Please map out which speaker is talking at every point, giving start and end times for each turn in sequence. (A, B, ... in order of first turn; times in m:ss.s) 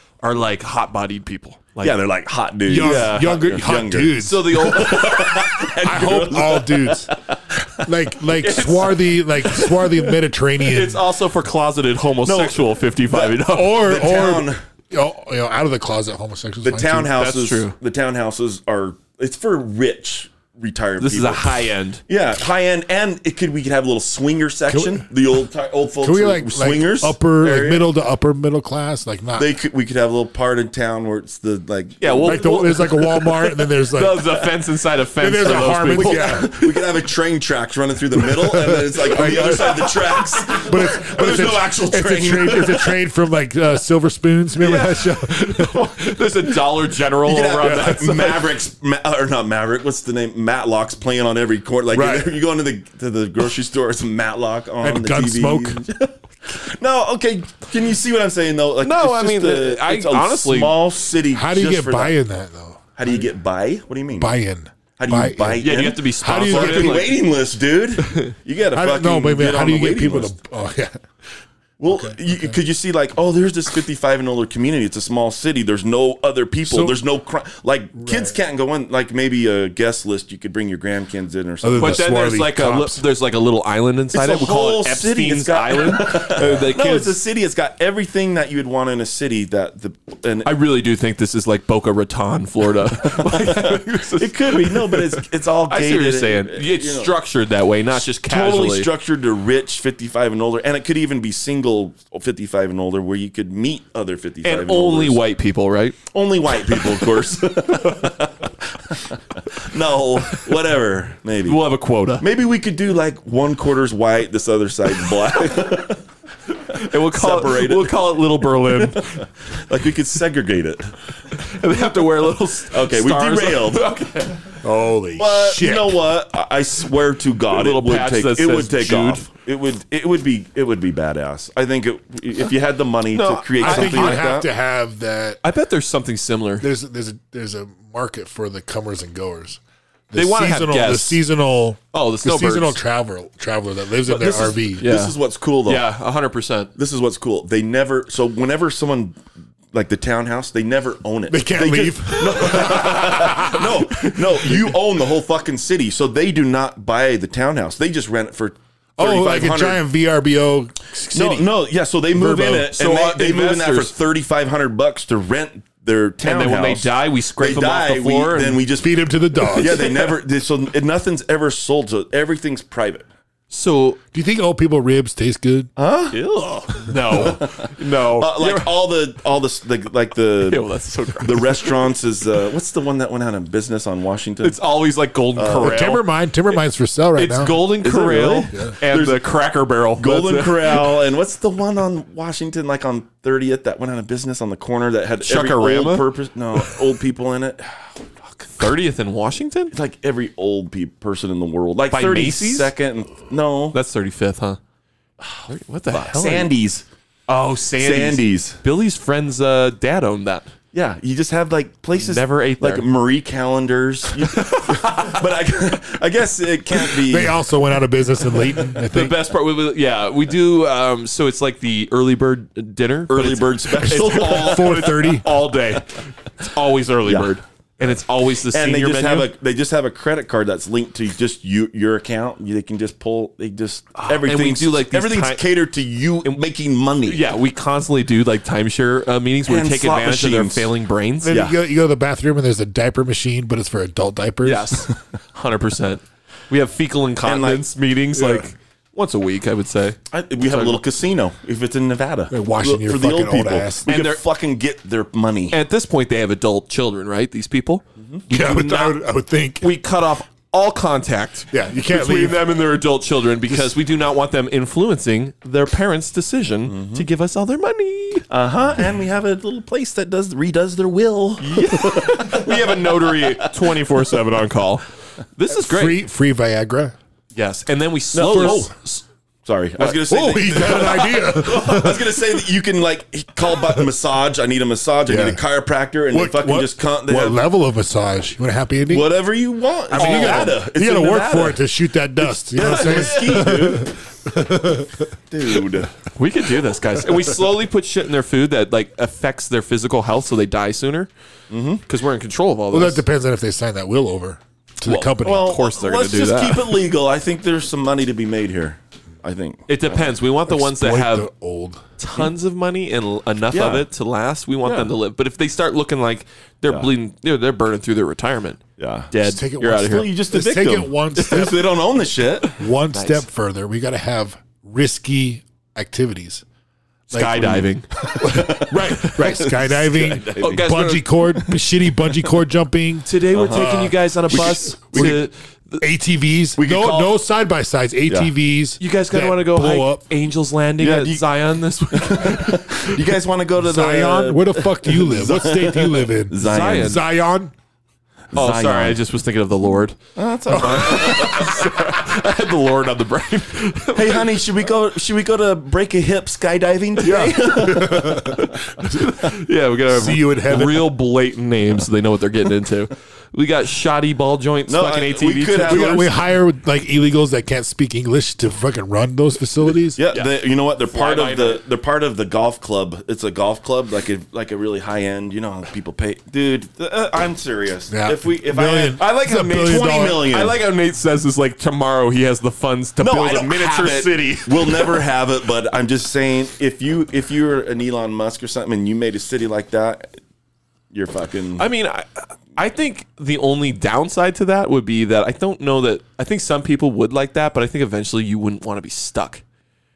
0:00.2-0:01.9 A
0:01.8-0:07.2 B
0:02.7-0:04.7 C
0:02.8-0:03.5 A
0:04.1-0:05.7 A
0:05.8-0:07.1 C
0:07.8-0:11.0 C
0:08.4-0:09.9 A
0:10.6-0:13.9 A
0:12.2-0:14.6 B
0:13.5-0:17.2 C
0:16.6-0:27.9 B
0:17.1-0:17.7 A
0:21.0-0:22.0 A
0:24.7-0:25.1 C
0:26.0-0:29.5 C
0:29.4-0:32.8 B
0:32.0-0:36.9 A
0:32.2-0:34.5 C
0:35.2-0:36.5 C
0:35.4-0:42.9 B
0:38.1-0:39.9 C
0:39.1-0:40.8 A
0:40.4-0:46.2 C
0:44.6-0:48.6 A
0:47.2-1:02.2 B
0:47.6-0:48.2 C
0:51.9-0:52.4 C
0:54.8-0:55.8 C
0:58.8-1:00.8 A
1:01.3-1:03.2 C
1:03.0-1:04.3 B
1:04.2-1:07.1 C
1:05.0-1:10.3 B
1:05.6-1:07.2 A
1:08.7-1:11.0 C
1:11.8-1:22.1 B
1:11.9-1:12.6 C
1:16.6-1:17.0 C
1:17.9-1:18.4 C
1:21.6-1:23.0 C
1:21.8-1:27.2 A
1:24.1-1:30.5 B
1:30.4-1:38.9 A
1:33.0-1:37.1 B
1:38.0-1:45.2 B
1:44.4-1:46.0 A
1:46.1-1:51.6 B
1:46.6-1:47.0 A
1:51.4-1:52.2 A
1:52.2-1:56.0 B
1:56.7-1:59.2 A
1:56.7-1:57.9 B
1:58.7-2:01.0 B
2:01.3-2:04.6 A
2:02.7-2:03.8 B
2:04.6-2:06.1 C
2:05.2-2:14.5 B
2:07.5-2:09.3 A
2:13.1-2:14.3 A
2:13.6-2:15.4 C
2:15.4-2:16.7 A
2:16.6-2:19.6 C
2:20.1-2:24.9 C
2:20.1-2:21.2 A
2:21.9-2:22.8 A
2:24.1-2:25.8 B
2:24.8-2:26.7 A
2:26.8-2:29.2 B
2:29.7-2:39.8 B
2:31.3-2:34.7 C
2:39.0-2:41.5 C
2:41.1-2:53.1 B
2:42.1-2:42.7 C
2:42.7-2:43.9 A
2:46.2-2:48.6 A
2:48.8-2:50.1 C
2:53.5-2:54.0 A
2:54.1-2:55.7 C
2:55.8-2:56.2 B
2:56.1-2:58.7 A
2:57.1-3:00.6 B
3:00.4-3:01.8 A
3:01.2-3:04.6 B
3:04.4-3:06.0 A
3:05.3-3:06.0 B
3:05.6-3:07.6 C
3:07.1-3:11.0 A
3:07.6-3:09.3 B
3:08.5-3:08.8 C
3:10.0-3:18.5 B
3:15.2-3:16.1 A
3:18.5-3:19.7 A
3:19.7-3:23.8 B
3:21.9-3:22.7 A
3:23.7-3:24.6 A
3:25.2-3:26.8 B
3:25.5-3:26.5 A
3:27.3-3:30.5 A
3:27.8-3:28.6 B
3:30.7-3:37.4 B
3:31.9-3:32.9 A
3:34.2-3:35.2 A
3:37.1-3:39.2 C
3:38.6-3:49.3 A
3:43.1-3:45.0 B
3:44.1-3:45.3 C
3:47.0-3:47.3 B
3:48.5-3:57.2 B
3:54.0-3:55.4 A
3:57.0-4:01.4 A
3:59.4-4:00.7 B
4:01.2-4:04.9 C
4:01.3-4:01.6 B
4:04.4-4:10.8 A
4:07.2-4:07.7 B
4:08.1-4:08.4 C
4:10.1-4:15.6 B
4:12.3-4:13.9 C
4:13.8-4:14.2 A
4:15.5-4:19.0 A
4:18.3-4:19.7 C
4:19.6-4:28.3 A
4:21.5-4:22.5 C
4:26.7-4:27.0 B
4:28.3-4:33.6 B
4:31.4-4:36.0 A
4:35.5-4:36.9 C
4:37.3-4:38.7 A
4:38.1-4:47.4 B
4:38.2-4:38.7 C
4:39.8-4:42.3 C
4:45.0-4:45.4 C
4:46.1-4:49.1 C
4:48.9-4:51.6 B
4:49.9-4:55.1 C
4:49.9-4:50.6 A
4:52.2-4:54.0 B
4:52.6-4:53.2 A
4:55.3-4:56.0 B
4:56.1-5:01.1 A
5:01.5-5:01.8 B
5:01.9-5:03.0 A
5:02.7-5:05.6 C
5:04.8-5:10.1 B
5:04.9-5:06.8 A
5:09.7-5:11.3 A
5:10.5-5:11.8 C
5:12.0-5:20.1 A
5:13.5-5:13.8 B
5:14.6-5:14.9 B
5:18.8-5:19.1 B
5:19.2-5:21.7 C
5:19.8-5:22.6 B
5:22.6-5:26.4 C
5:22.9-5:23.2 A
5:27.1-5:35.3 C
5:27.1-5:31.5 A
5:28.2-5:30.7 B
5:33.0-5:35.8 A
5:33.3-5:33.8 B
5:34.3-5:35.2 B
5:35.8-5:40.0 C
5:36.6-5:37.1 B
5:38.8-5:42.9 A
5:40.8-5:41.2 B
5:41.9-5:47.0 B
5:43.6-5:47.5 C
5:46.4-5:47.0 A
5:48.3-5:49.0 B
5:48.3-5:50.0 A
5:50.2-5:51.6 B
5:50.5-5:54.3 A
5:53.9-5:58.2 B
5:57.0-5:59.4 C
5:57.0-6:06.0 A
5:59.9-6:00.9 C
6:04.7-6:06.1 B
6:05.6-6:10.0 C
6:09.9-6:20.6 B
6:10.9-6:11.6 A
6:17.9-6:20.3 C
6:19.0-6:25.0 A
6:23.0-6:30.2 B
6:30.9-6:31.7 B
6:31.6-6:39.4 A